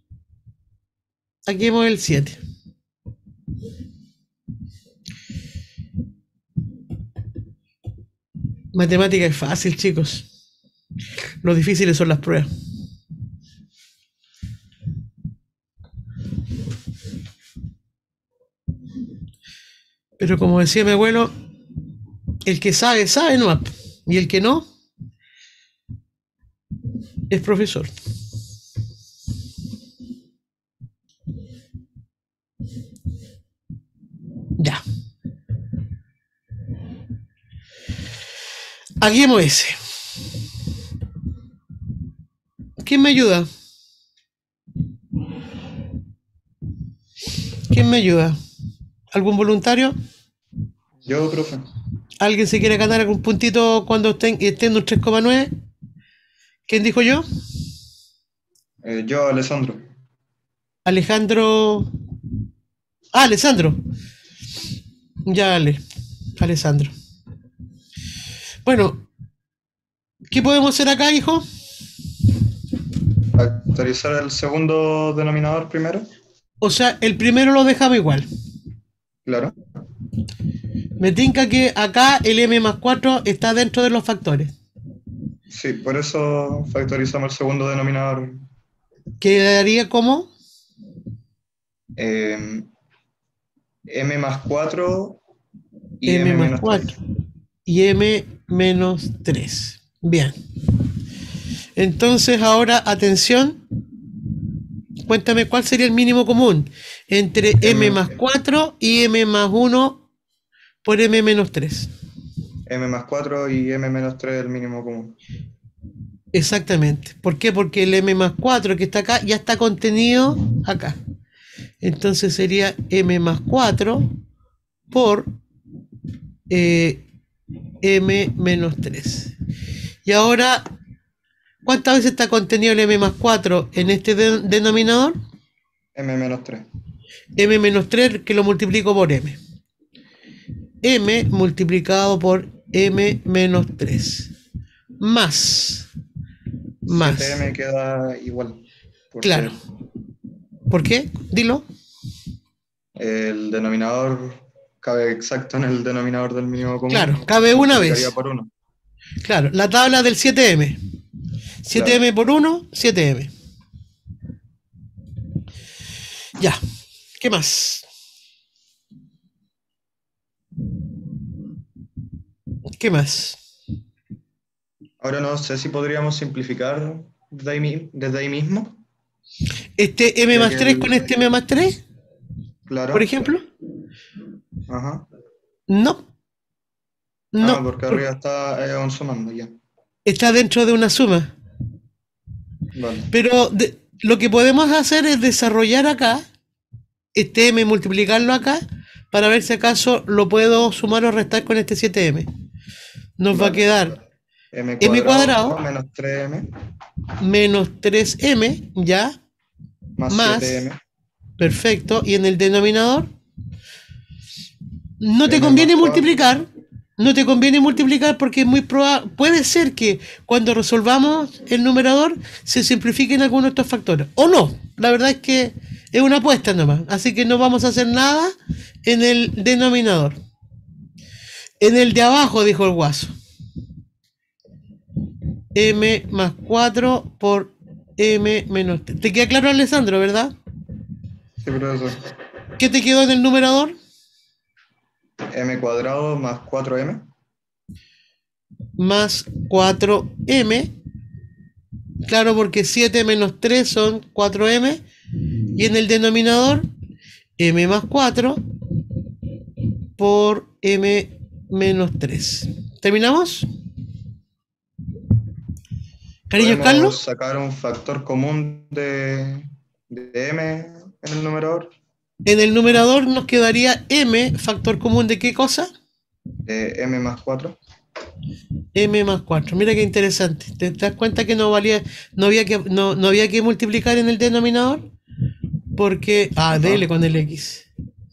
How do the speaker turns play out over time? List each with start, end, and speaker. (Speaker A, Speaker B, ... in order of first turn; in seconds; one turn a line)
Speaker A: 1.5-2.4
Speaker A: 8.7-10.3
Speaker A: 11.4-12.5
Speaker A: 20.2-21.3
Speaker A: 22.4-24.6
Speaker A: 27.3-27.9
Speaker A: 39.0-39.8
Speaker A: 42.8-43.5
Speaker A: 47.7-48.4
Speaker A: 49.1-49.9
Speaker B: 51.0-51.7
Speaker A: 52.2-55.5
Speaker A: 56.7-57.2
Speaker B: 58.8-59.9
Speaker A: 60.9-61.9
Speaker A: 63.1-63.8
Speaker A: 65.3-65.8
Speaker A: 66.4-66.9
Speaker A: 68.7-69.0
Speaker A: 70.3-71.4
Speaker B: 73.3-76.1
Speaker A: 76.6-78.3
Speaker B: 79.2-79.6
Speaker A: 81.0-84.5
Speaker B: 85.5-88.5
Speaker A: 89.2-90.3
Speaker B: 92.0-92.7
Speaker B: 93.9-95.2
Speaker B: 96.0-97.0
Speaker A: 96.1-97.0
Speaker A: 97.7-100.3
Speaker A: 101.8-103.6
Speaker A: 105.1-110.0
Speaker B: 107.6-108.1
Speaker A: 110.8-111.9
Speaker B: 112.7-115.2
Speaker A: 116.3-121.0
Speaker A: 121.8-124.1
Speaker A: 124.9-125.3
Speaker A: 126.5-127.0
Speaker A: 127.8-129.3
Speaker A: 130.1-130.7
Speaker A: 131.7-135.2
Speaker B: 135.9-136.7
Speaker A: 137.4-139.4
Speaker A: 140.8-144.3
Speaker A: 145.0-145.9
Speaker A: 146.9-147.4
Speaker B: 146.9-149.6
Speaker A: 149.2-149.6
Speaker A: 150.7-151.7
Speaker B: 153.0-158.5
Speaker A: 156.9-158.1
Speaker A: 159.2-160.8
Speaker A: 161.7-163.3
Speaker B: 161.7-162.0
Speaker A: 167.2-167.8
Speaker A: 172.8-173.4
Speaker B: 175.0-178.8
Speaker A: 179.8-181.8
Speaker B: 180.3-181.1
Speaker B: 182.7-183.4
Speaker A: 182.9-183.4
Speaker B: 184.7-185.1
Speaker A: 185.7-186.0
Speaker A: 187.3-188.0
Speaker B: 187.4-189.6
Speaker A: 190.1-191.3
Speaker B: 192.8-193.1
Speaker A: 193.1-196.2
Speaker A: 197.2-198.6
Speaker A: 199.1-202.3
Speaker A: 203.2-203.9
Speaker B: 203.3-204.0
Speaker B: 204.5-206.5
Speaker A: 204.8-205.6
Speaker A: 207.2-209.2
Speaker B: 210.0-210.8
Speaker A: 210.1-210.6
Speaker A: 211.4-213.1
Speaker A: 215.0-216.5
Speaker B: 215.2-216.3
Speaker A: 217.0-228.3
Speaker A: 228.8-230.2
Speaker A: 231.6-233.1
Speaker A: 235.6-240.3
Speaker B: 241.4-242.0
Speaker A: 242.6-243.8
Speaker B: 245.3-247.1
Speaker A: 248.8-250.7
Speaker A: 252.1-254.8
Speaker A: 255.6-256.7
Speaker A: 257.4-258.4
Speaker A: 260.0-263.5
Speaker A: 266.3-267.0
Speaker B: 266.4-271.7
Speaker A: 272.3-275.7
Speaker B: 276.4-277.6
Speaker A: 278.8-284.9
Speaker A: 285.8-287.7
Speaker B: 286.5-286.9